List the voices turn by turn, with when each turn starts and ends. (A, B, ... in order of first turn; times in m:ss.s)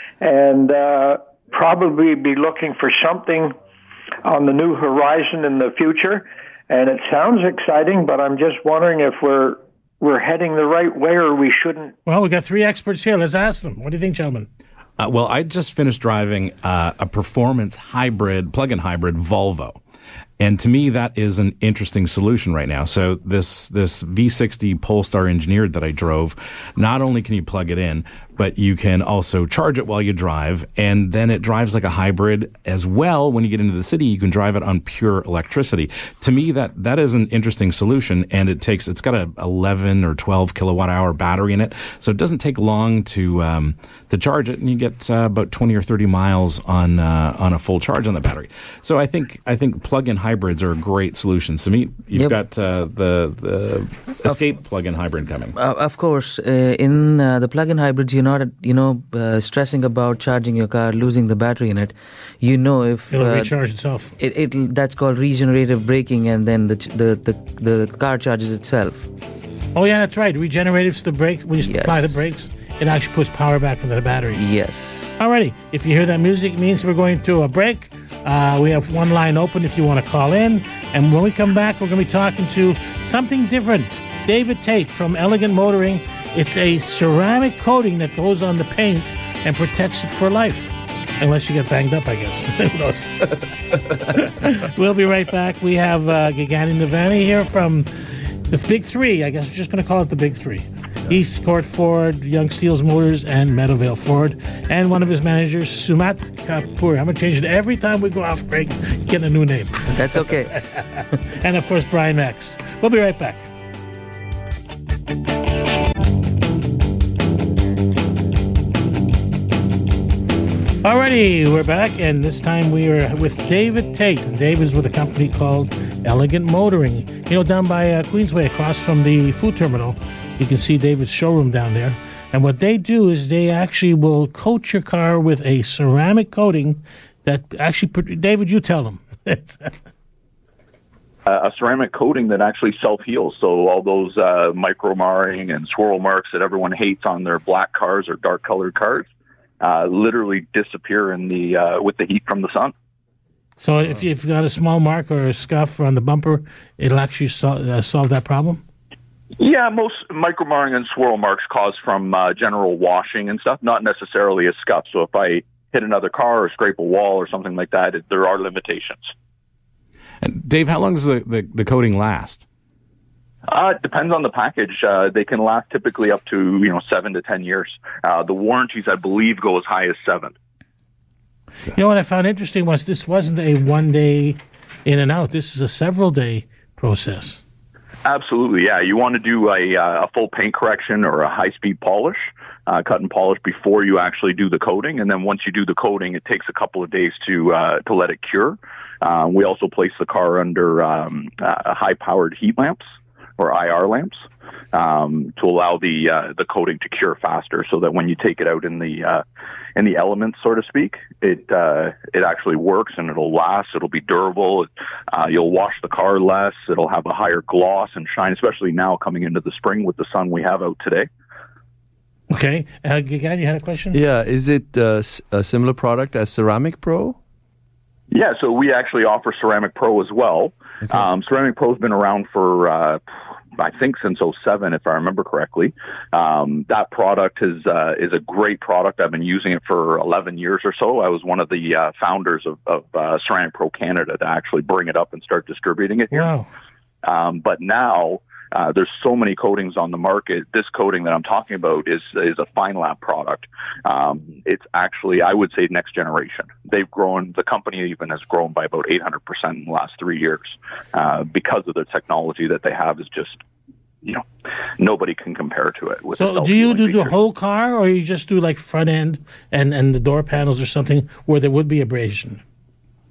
0:00.2-0:03.6 A
0:04.2-0:11.9 A
0:12.1-0:14.5 B
0:15.0-0:19.8 C
0:20.4-0:55.6 C
0:55.5-1:03.5 D
1:03.1-1:04.1 B
1:04.2-1:09.1 D
1:09.8-1:14.4 B
1:11.6-1:12.2 D
1:14.4-1:15.2 D
1:15.2-1:53.4 B
1:49.9-1:50.6 D
2:00.8-2:19.7 B
2:21.3-2:29.1 E
2:29.6-2:32.7 E
2:33.6-2:38.6 B
2:39.4-2:49.1 E
2:50.2-2:52.4 C
2:53.5-3:00.3 E
3:01.7-3:07.4 B
3:08.0-3:22.8 E
3:23.4-3:29.2 E
3:29.8-3:41.1 E
3:42.3-3:44.0 B
3:43.9-3:47.2 F
3:48.1-3:53.0 E
3:53.6-4:06.3 E
4:06.1-4:06.5 B
4:07.0-4:23.4 E
4:24.8-4:27.2 E
4:26.2-4:32.4 B